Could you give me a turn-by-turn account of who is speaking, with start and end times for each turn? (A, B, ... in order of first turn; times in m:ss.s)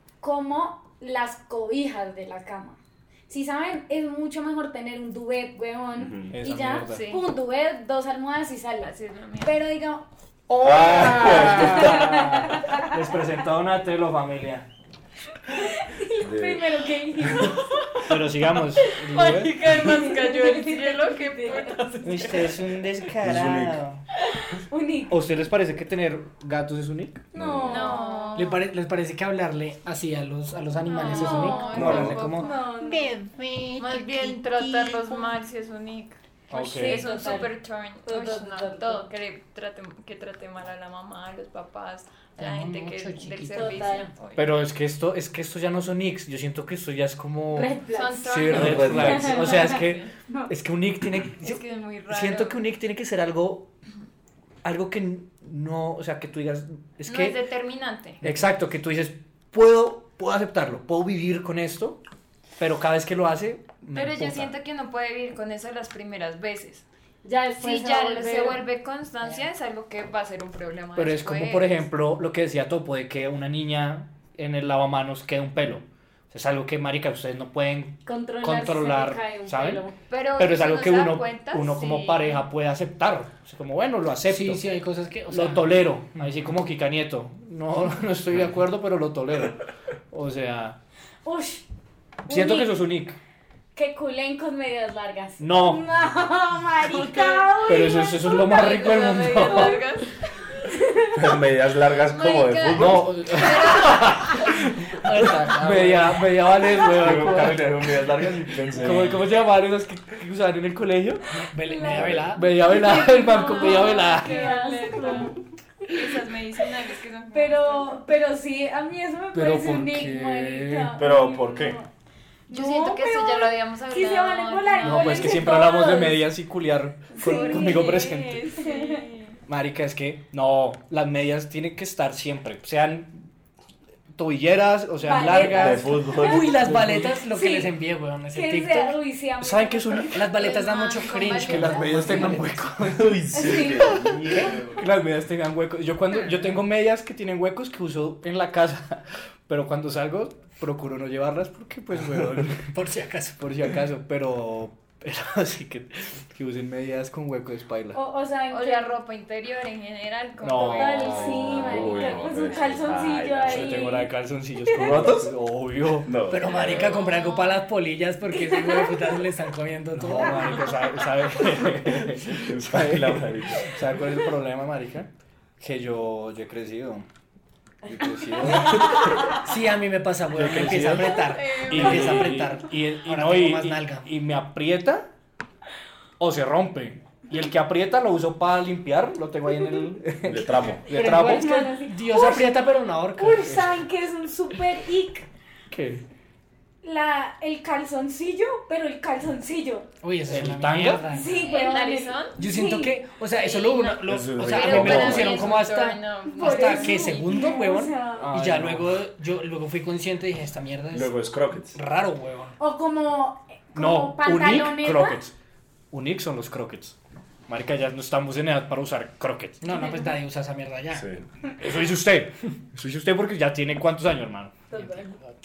0:00.2-0:12.9 A
0:06.0-0:06.4 B
0:06.3-0:07.0 C
0:06.8-0:07.3 D
0:08.8-0:09.6 D
0:10.6-0:12.4 B
0:10.7-0:14.7 C
0:15.5-0:18.0 A
0:16.2-0:17.5 B
0:18.1-0:19.6 C
0:18.9-0:22.6 D
0:19.6-0:21.8 A
0:22.0-0:24.0 C
0:23.2-0:23.8 B
0:24.5-0:25.2 A
0:25.1-0:27.3 C
0:27.3-0:28.5 A
0:27.4-0:27.9 B
0:27.7-0:28.6 D
0:28.4-0:35.2 E
0:30.8-0:32.7 D
0:30.9-0:33.1 A
0:31.7-0:32.5 C
0:31.7-0:32.2 B
0:33.8-0:44.6 D
0:36.5-0:37.1 C
0:36.5-0:37.5 A
0:38.1-0:39.1 A
0:42.4-0:43.8 E
0:43.5-0:44.1 A
0:44.4-0:53.7 C
0:47.5-0:50.5 A
0:47.9-0:50.1 D
0:48.5-0:49.3 B
0:51.4-0:52.6 D
0:54.6-0:57.4 C
0:57.1-0:58.2 D
0:58.2-1:02.0 C
1:02.6-1:04.5 C
1:03.9-1:06.8 D
1:07.2-1:08.6 A
1:07.6-1:11.8 D
1:11.0-1:24.6 C
1:18.1-1:20.0 A
1:20.1-1:22.4 D
1:24.3-1:25.8 E
1:25.3-1:30.8 C
1:31.2-1:31.6 A
1:32.3-1:32.9 A
1:32.3-1:33.2 C
1:33.8-1:38.5 A
1:35.4-1:35.8 C
1:36.9-1:40.3 D
1:37.7-1:39.8 C
1:39.4-1:39.8 A
1:40.6-1:41.2 A
1:41.1-1:43.2 B
1:42.0-1:44.6 D
1:42.7-1:48.0 C
1:44.9-1:46.3 E
1:46.9-1:49.2 B
1:48.7-1:51.2 C
1:51.3-1:52.5 E
1:51.8-1:52.0 A
1:51.9-1:52.3 B
1:52.3-1:54.5 C
1:52.6-1:56.1 A
1:52.8-1:58.0 D
1:57.3-2:01.9 A
1:59.3-2:01.0 C
2:01.0-2:01.8 B
2:02.5-2:06.3 A
2:02.5-2:05.7 D
2:04.8-2:08.5 C
2:07.2-2:09.4 D
2:07.2-2:09.1 A
2:09.5-2:13.2 C
2:14.2-2:17.2 C
2:15.0-2:16.6 A
2:15.4-2:16.7 B
2:16.2-2:19.0 E
2:17.3-2:17.7 A
2:18.3-2:20.1 A
2:19.4-2:20.4 C
2:20.1-2:22.7 E
2:20.3-2:22.4 D
2:21.4-2:32.7 C
2:22.8-2:24.9 B
2:23.3-2:24.4 A
2:24.1-2:24.5 E
2:32.6-2:33.4 E
2:33.4-2:38.0 C
2:37.9-2:39.0 A
2:38.5-2:42.7 D
2:40.4-2:41.8 C
2:40.5-2:44.1 A
2:41.1-2:44.0 B
2:43.5-2:46.1 C
2:44.7-2:45.0 A
2:44.7-2:45.3 B
2:46.0-2:47.1 B
2:46.3-2:50.7 E
2:46.8-2:47.6 D
2:48.5-2:48.9 A
2:50.0-2:57.1 C
2:52.2-2:53.8 B
2:57.8-2:59.0 C
2:58.5-2:58.9 B
2:59.2-3:04.1 E
3:00.3-3:05.1 C
3:00.6-3:01.1 B
3:01.2-3:02.5 D
3:06.2-3:11.6 C
3:10.2-3:10.9 B
3:10.9-3:13.7 E
3:11.2-3:12.6 A
3:13.2-3:15.3 A
3:15.7-3:16.0 C
3:16.8-3:19.9 A
3:20.0-3:21.4 E
3:20.3-3:21.1 C
3:21.1-3:23.0 A
3:21.2-3:22.4 D
3:22.4-3:31.2 E
3:23.4-3:27.5 D
3:24.0-3:25.6 B
3:26.3-3:28.3 A
3:28.2-3:29.0 C
3:30.9-3:31.8 B
3:31.7-3:32.6 E
3:32.6-3:35.2 A
3:33.8-3:35.3 C
3:35.9-3:37.0 C
3:37.5-3:39.8 C
3:39.6-3:41.1 E
3:39.8-3:40.1 A
3:40.9-3:41.3 B
3:41.6-3:44.6 C
3:44.7-3:45.2 A